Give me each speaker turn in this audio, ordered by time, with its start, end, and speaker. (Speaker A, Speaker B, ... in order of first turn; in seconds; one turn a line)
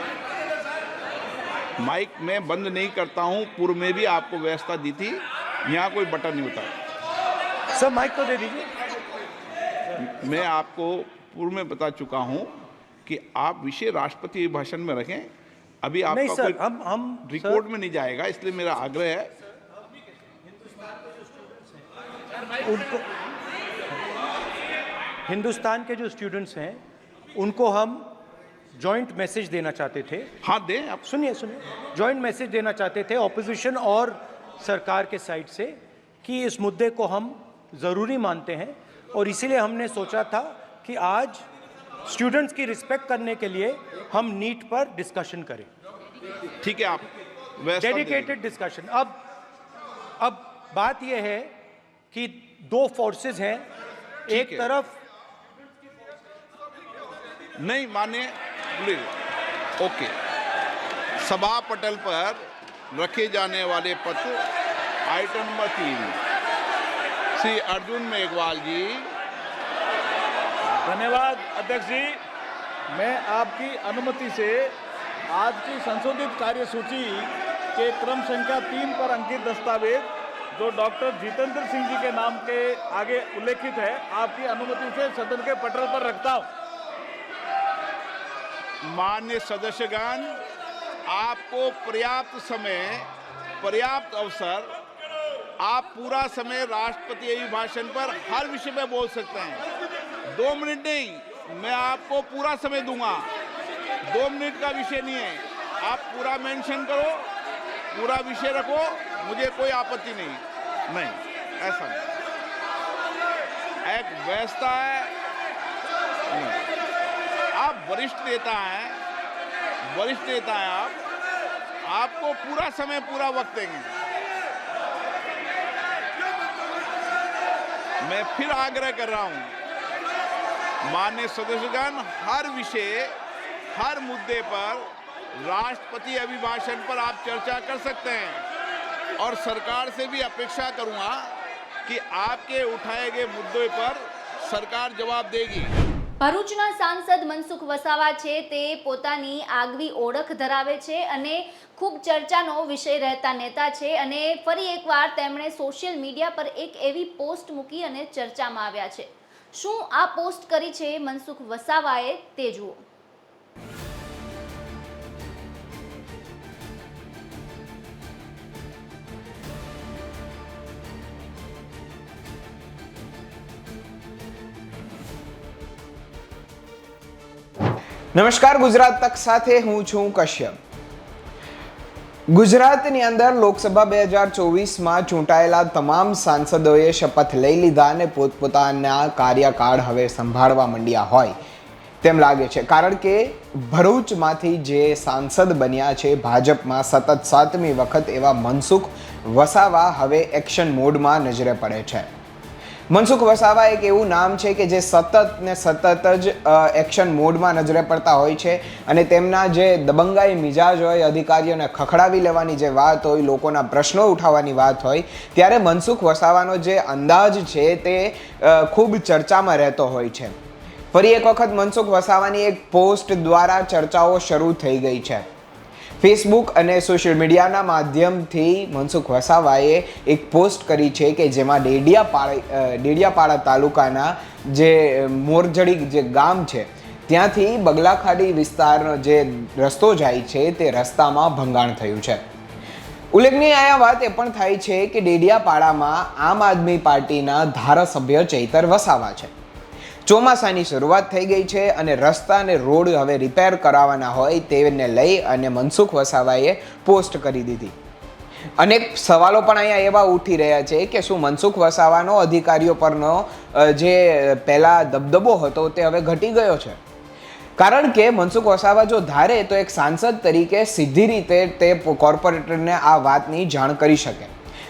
Speaker A: 1.8-6.7
Speaker B: 7.8-8.7
Speaker A: 10.0-12.5
Speaker A: 13.1-15.3
Speaker A: 15.8-16.6
Speaker B: 16.1-17.6
Speaker A: 17.3-19.3
Speaker B: 22.6-23.1
Speaker B: 25.3-26.8
Speaker B: 27.4-28.2
Speaker B: 28.8-30.3
Speaker A: 30.4-31.0
Speaker B: 31.1-41.4
Speaker B: 42.1-45.7
Speaker A: 46.6-47.1
Speaker A: 47.6-48.4
Speaker B: 47.8-49.2
Speaker B: 50.2-51.5
Speaker B: 52.1-53.7
Speaker B: 54.3-55.0
Speaker A: 54.3-54.7
Speaker A: 57.6-59.1
Speaker A: 59.8-60.1
Speaker A: 61.2-64.4
Speaker A: 65.1-66.2
Speaker A: 67.4-69.1
Speaker C: 70.8-72.2
Speaker C: 72.9-74.7
Speaker C: 75.3-86.5
Speaker A: 88.8-90.4
Speaker A: 91.1-93.1
Speaker A: 93.6-94.7
Speaker A: 95.6-99.6
Speaker A: 100.3-103.3
Speaker A: 104.1-107.3
Speaker A: 107.9-112.0
Speaker A: 113.8-115.1
Speaker A: 116.3-116.6
Speaker A: 117.5-119.0
Speaker A: 119.9-121.0
Speaker A: 121.8-124.0
Speaker A: 128.0-129.5
Speaker A: 130.8-133.1
Speaker A: 133.7-138.4
Speaker A: 139.2-141.3
Speaker A: 141.9-145.8
Speaker D: 146.2-162.8
Speaker E: 178.1-180.6
Speaker E: 182.3-191.4
Speaker E: 192.0-202.1
Speaker E: 202.9-220.4
Speaker E: 220.9-225.3
Speaker E: 226.0-242.2
Speaker E: 243.1-249.3
Speaker E: 250.1-257.8
Speaker E: 258.6-266.8
Speaker E: 267.6-274.3